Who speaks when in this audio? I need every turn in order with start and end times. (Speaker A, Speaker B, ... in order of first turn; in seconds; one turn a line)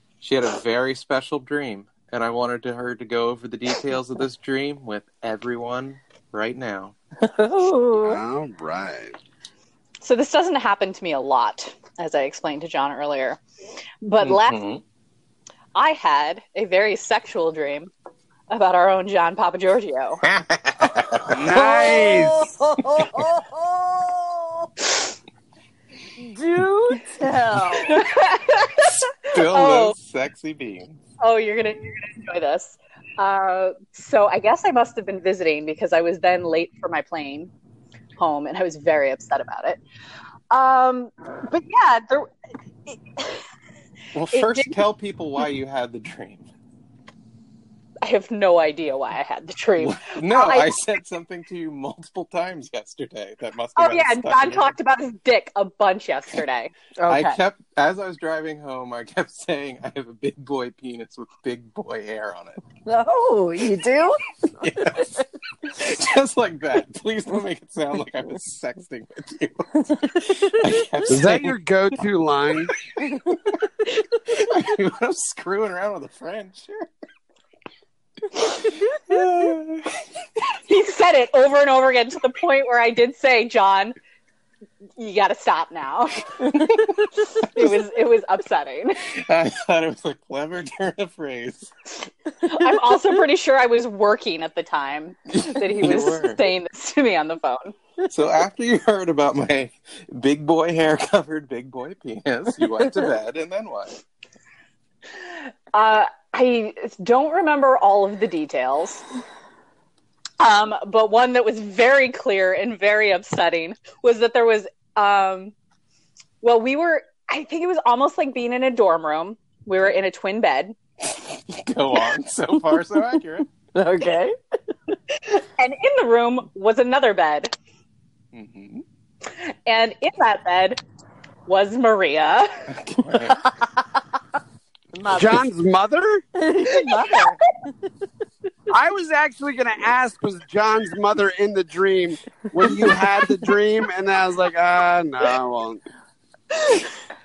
Speaker A: 0.2-6.9
Speaker B: 7.2-8.2
Speaker C: 7.9-9.1
Speaker D: 10.0-13.4
Speaker D: 14.0-14.6
Speaker A: 14.2-14.8
Speaker D: 15.7-17.9
Speaker D: 18.5-20.2
Speaker A: 20.3-21.4
Speaker C: 21.3-22.4
Speaker B: 21.5-24.7
Speaker B: 26.2-27.9
Speaker D: 27.8-29.9
Speaker A: 29.3-31.0
Speaker D: 31.2-37.5
Speaker D: 38.2-39.8
Speaker D: 40.5-42.3
Speaker D: 42.9-43.5
Speaker A: 44.1-46.5
Speaker D: 44.3-44.8
Speaker D: 48.0-50.7
Speaker A: 49.8-54.7
Speaker D: 53.8-56.7
Speaker B: 57.0-57.4
Speaker A: 57.1-62.6
Speaker B: 62.9-64.2
Speaker A: 64.5-71.5
Speaker C: 71.1-72.7
Speaker A: 74.2-76.9
Speaker A: 79.1-80.0
Speaker D: 80.7-83.9
Speaker D: 85.0-89.0
Speaker A: 89.0-91.7
Speaker D: 92.4-97.7
Speaker A: 95.3-96.4
Speaker A: 98.0-104.0
Speaker D: 105.7-109.0
Speaker D: 110.4-115.5
Speaker D: 116.4-120.7
Speaker A: 121.2-123.5
Speaker B: 123.7-124.3
Speaker D: 125.2-127.5
Speaker A: 128.3-128.8
Speaker D: 129.3-130.8
Speaker D: 131.5-132.5
Speaker A: 132.7-133.5
Speaker B: 134.9-135.5
Speaker C: 135.1-136.2
Speaker B: 136.3-137.6
Speaker C: 138.7-145.8
Speaker D: 146.5-146.9